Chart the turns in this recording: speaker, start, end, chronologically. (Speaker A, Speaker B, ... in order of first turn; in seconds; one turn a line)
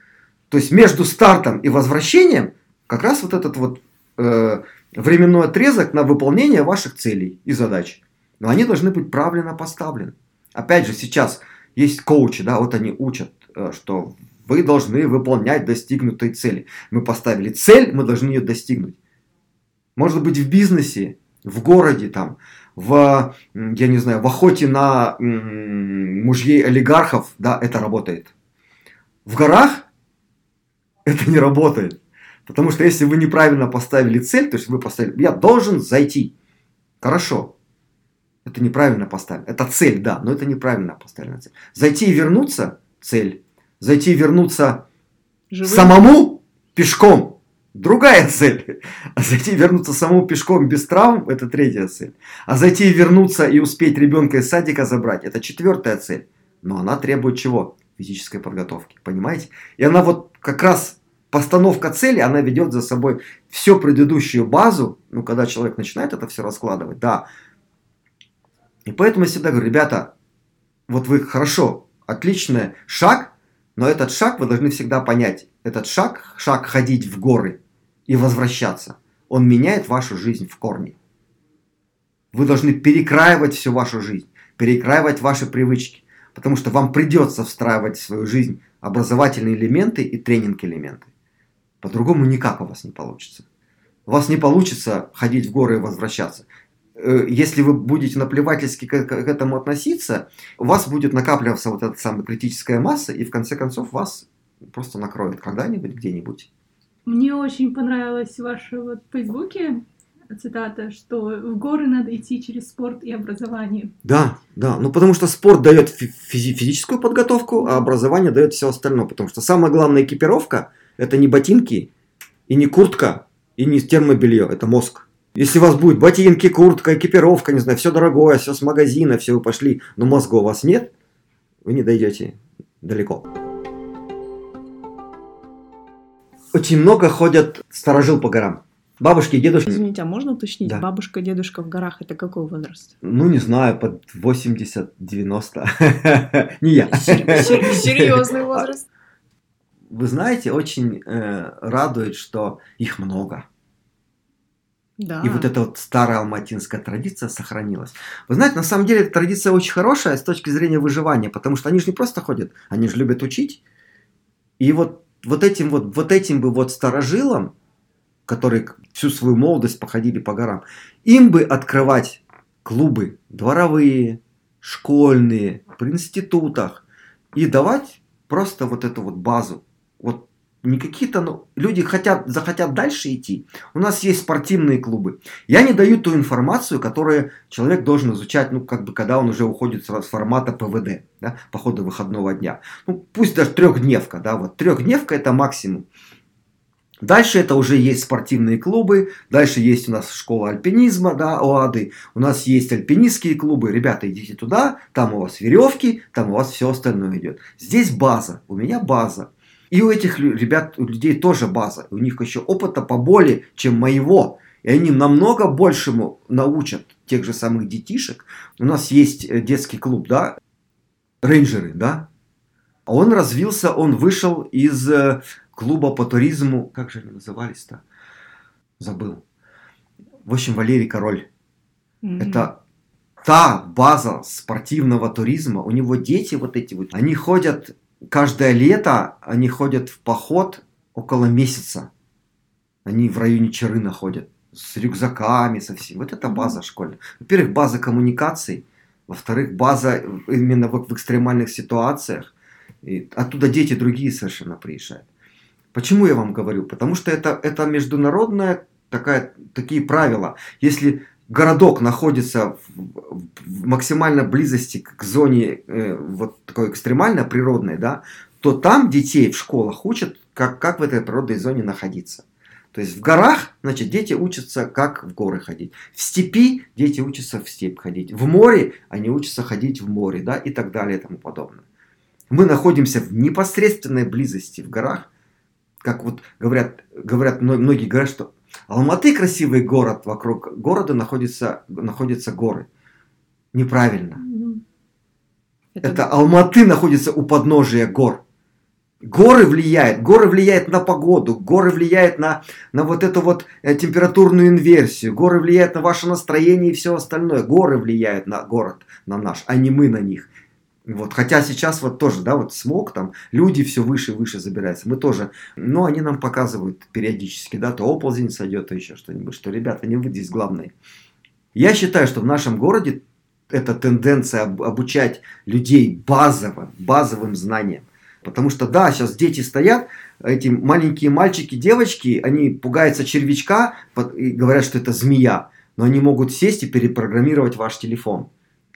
Speaker A: 0.5-19.0
Speaker A: 20.0-28.3
Speaker A: 29.3-29.9
Speaker A: 31.1-36.3
Speaker A: 37.0-37.5
Speaker A: 38.5-44.9
Speaker B: 45.5-46.0
Speaker A: 45.6-67.3
Speaker A: 68.9-70.1
Speaker A: 70.9-81.0
Speaker A: 82.3-91.1
Speaker A: 91.8-93.5
Speaker A: 94.1-96.5
Speaker A: 97.0-106.5
Speaker C: 107.1-113.9
Speaker A: 114.0-121.9
Speaker C: 117.6-117.9
Speaker A: 122.5-130.9
Speaker A: 131.7-133.3
Speaker A: 136.5-139.8
Speaker B: 139.7-143.0
Speaker A: 143.0-148.7
Speaker B: 146.9-148.9
Speaker A: 149.9-153.5
Speaker B: 155.0-155.5
Speaker A: 155.2-163.6
Speaker A: 164.6-167.5
Speaker A: 168.3-176.8
Speaker A: 177.3-195.9
Speaker A: 197.0-220.4
Speaker A: 221.2-222.1
Speaker A: 222.9-227.8
Speaker A: 228.8-229.2
Speaker A: 230.2-231.3
Speaker B: 232.0-232.5
Speaker A: 232.2-232.6
Speaker A: 233.2-241.9
Speaker A: 242.8-252.3
Speaker A: 252.8-255.1
Speaker A: 255.7-281.6
Speaker A: 282.3-285.1
Speaker A: 285.8-292.7
Speaker A: 293.5-294.2
Speaker C: 294.2-294.6
Speaker B: 295.8-296.1
Speaker A: 295.8-298.2
Speaker A: 299.0-310.3
Speaker A: 310.9-320.7
Speaker A: 321.6-338.3